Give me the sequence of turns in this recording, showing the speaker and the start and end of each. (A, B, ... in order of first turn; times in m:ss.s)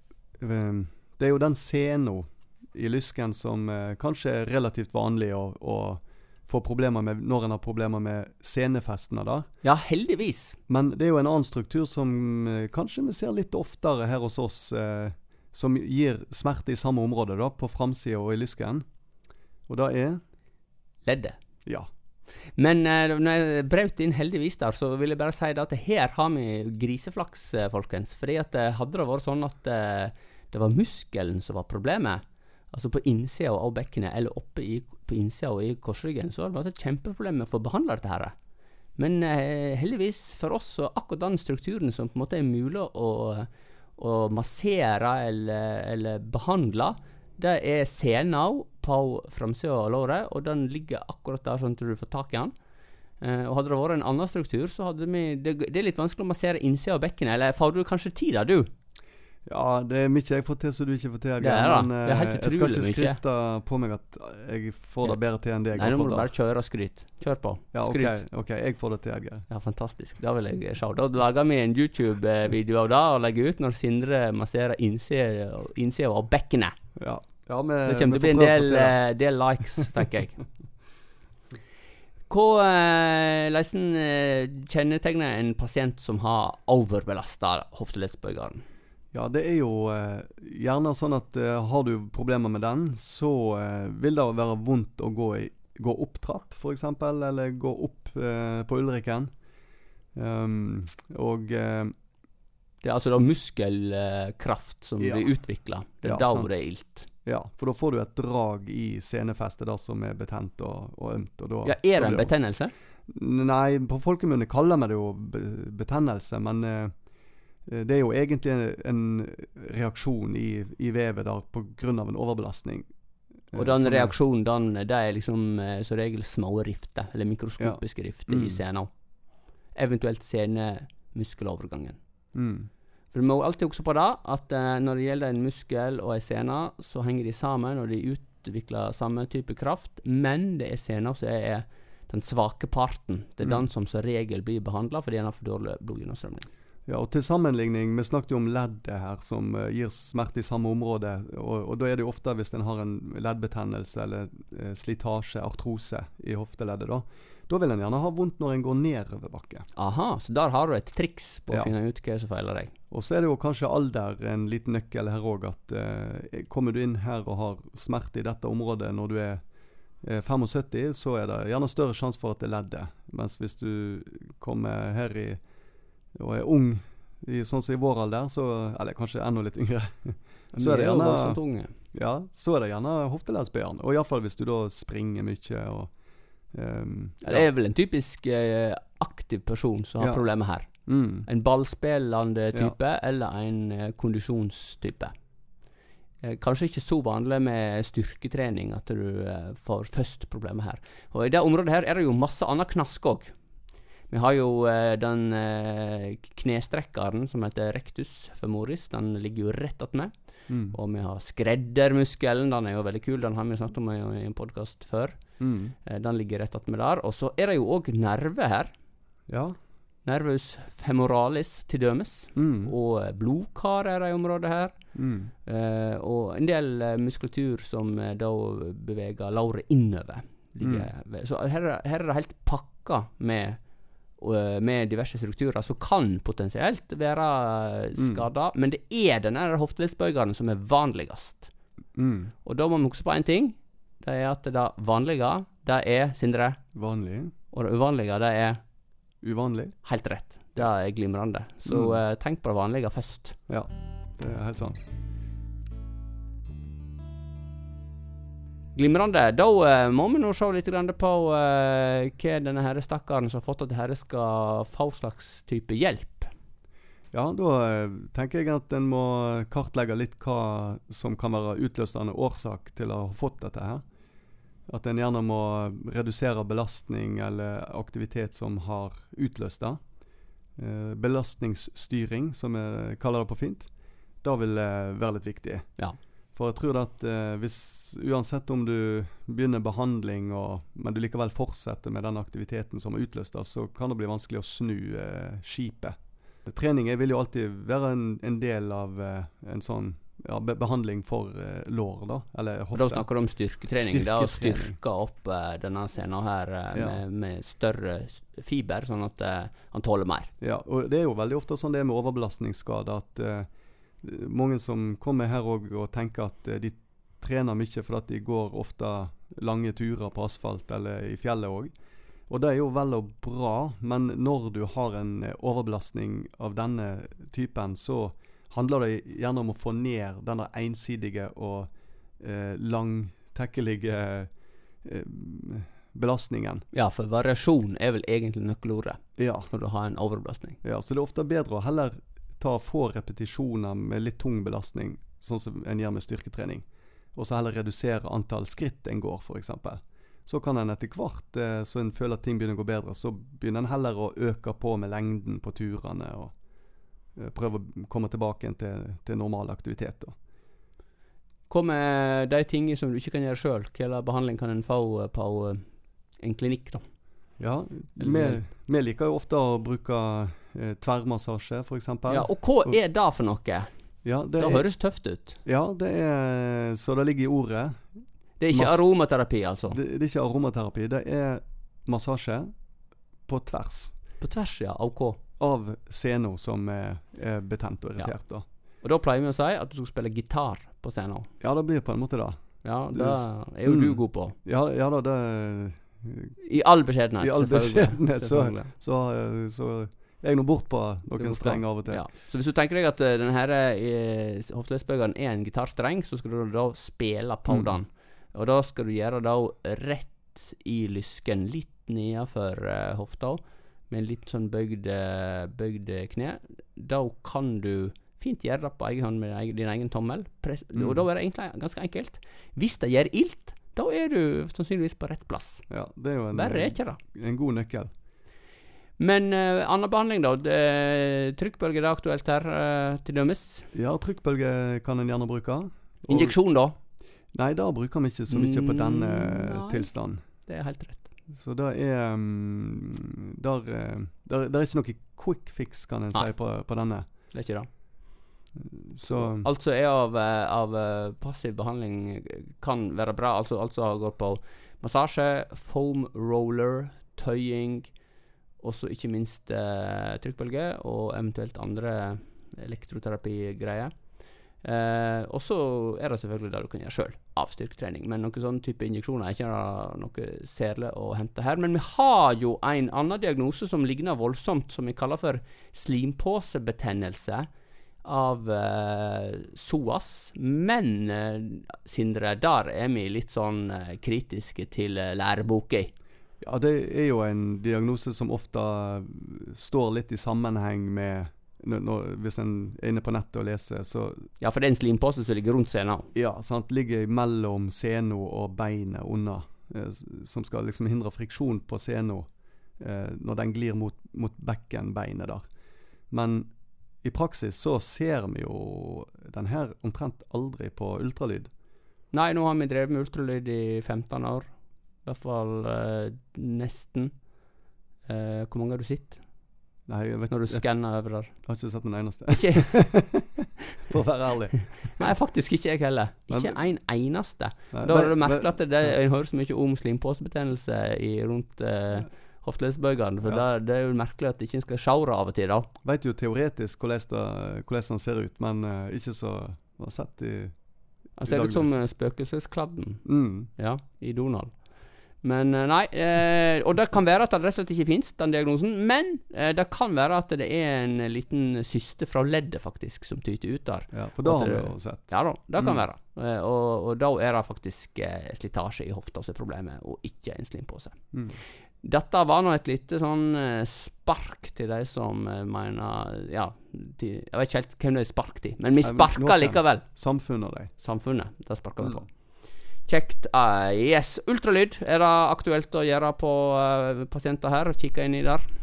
0:00.4-0:09.5 A
0:09.6-0:10.6 B
0:10.7-0:18.8 A
0:19.7-0:20.2 A
0:21.0-0:21.4 B
0:22.6-0:38.3 B
0:39.0-0:52.5 B
0:53.2-0:58.7 B
0:59.5-1:06.3 A
1:01.4-1:03.2 B
1:05.7-1:08.2 B
1:07.7-1:09.5 A
1:09.5-1:16.7 B
1:17.0-1:19.0 A
1:17.9-1:20.4 B
1:22.3-1:28.6 B
1:29.1-1:39.3 A
1:40.2-1:41.9 A
1:42.8-1:47.1 B
1:45.0-1:45.3 A
1:46.0-1:46.6 A
1:47.2-1:52.3 A
1:51.6-1:52.7 B
1:53.1-1:56.9 A
1:57.7-2:02.9 A
2:03.5-2:04.2 A
2:03.5-2:08.9 B
2:07.6-2:08.6 A
2:09.7-2:12.0 B
2:12.4-2:12.7 A
2:13.1-2:26.5 B
2:26.9-2:39.7 A
2:39.8-2:42.7 B
2:42.9-2:49.4 A
2:50.0-2:55.4 A
2:56.2-3:01.4 A
3:00.5-3:01.7 B
3:01.9-3:05.9 A
3:06.5-3:07.5 A
3:07.2-3:10.7 B
3:10.9-3:11.3 A
3:11.3-3:15.1 B
3:16.2-3:23.3 B
3:24.1-3:30.1 B
3:30.5-3:30.8 A
3:30.7-3:35.2 B
3:35.4-3:35.8 A
3:35.9-3:38.7 B
3:39.3-3:39.6 A
3:40.0-3:44.7 B
3:42.4-3:42.7 A
3:45.0-3:45.3 A
3:45.4-3:53.6 B
3:50.6-3:50.9 A
3:54.2-4:01.5 B
3:58.0-3:58.2 A
4:02.0-4:02.3 A
4:02.4-4:06.6 B
4:06.7-4:07.3 A
4:07.5-4:08.6 B
4:09.2-4:09.8 A
4:09.8-4:13.4 B
4:11.7-4:12.0 A
4:13.5-4:14.8 A
4:18.7-4:26.3 B
4:27.1-4:33.8 A
4:34.7-4:39.8 A
4:40.6-4:43.7 A
4:44.2-4:45.8 A
4:46.4-4:55.9 A
4:56.5-5:03.1 A
5:02.7-5:10.3 B
5:03.7-5:04.8 A
5:06.7-5:07.0 A
5:10.4-5:13.5 A
5:14.0-5:21.7 A
5:22.3-5:34.3 A
5:34.8-5:36.6 A
5:36.7-5:40.6 B
5:39.2-5:39.5 A
5:40.6-5:56.3 A
5:57.2-6:00.2 A
6:01.5-6:05.6 B
6:06.2-6:06.8 B
6:07.4-6:12.8 A
6:08.0-6:08.4 B
6:12.1-6:13.7 B
6:14.0-6:14.7 A
6:14.4-6:15.4 B
6:15.4-6:17.8 A
6:18.4-6:19.8 B
6:18.5-6:18.9 A
6:19.7-6:22.5 A
6:23.3-6:23.9 A
6:24.2-6:25.2 B
6:25.4-6:28.4 A
6:28.8-6:31.3 B
6:31.4-6:32.4 A
6:32.6-6:34.4 B
6:32.9-6:36.4 A
6:36.4-6:38.7 B
6:37.2-6:42.0 A
6:41.2-7:05.6 B
6:47.5-6:47.8 A
7:00.7-7:01.0 A
7:05.7-7:07.9 A
7:06.3-7:07.0 B
7:09.0-7:13.7 B
7:13.7-7:16.4 A
7:16.1-7:16.8 B
7:17.3-7:20.2 A
7:18.3-7:19.9 B
7:20.5-7:21.1 B
7:21.3-7:27.0 A
7:27.3-7:27.7 B
7:28.6-7:29.5 A
7:29.0-7:37.9 B
7:38.6-7:43.9 B
7:44.6-7:57.5 B
7:58.0-8:05.9 B
8:06.4-8:14.3 A
8:14.4-8:16.1 B
8:16.1-8:22.3 A
8:22.8-8:25.4 A
8:26.1-8:26.5 A
8:27.0-8:31.5 A
8:32.1-8:34.5 B
8:35.0-8:37.1 B
8:38.1-8:39.2 B
8:39.9-8:40.7 A
8:40.3-8:41.3 B
8:41.4-8:45.1 A
8:42.3-8:42.7 B
8:45.0-8:55.7 B
8:46.3-8:46.6 A
8:47.7-8:48.6 A
8:55.8-9:00.5 A
9:01.2-9:03.0 B
9:01.2-9:01.7 A
9:03.0-9:03.5 A
9:03.6-9:04.6 B
9:05.2-9:21.0 B
9:13.9-9:15.8 A
9:21.1-9:21.4 A
9:21.8-9:29.8 B
9:28.8-9:30.7 A
9:30.8-9:32.1 B
9:32.9-9:38.5 B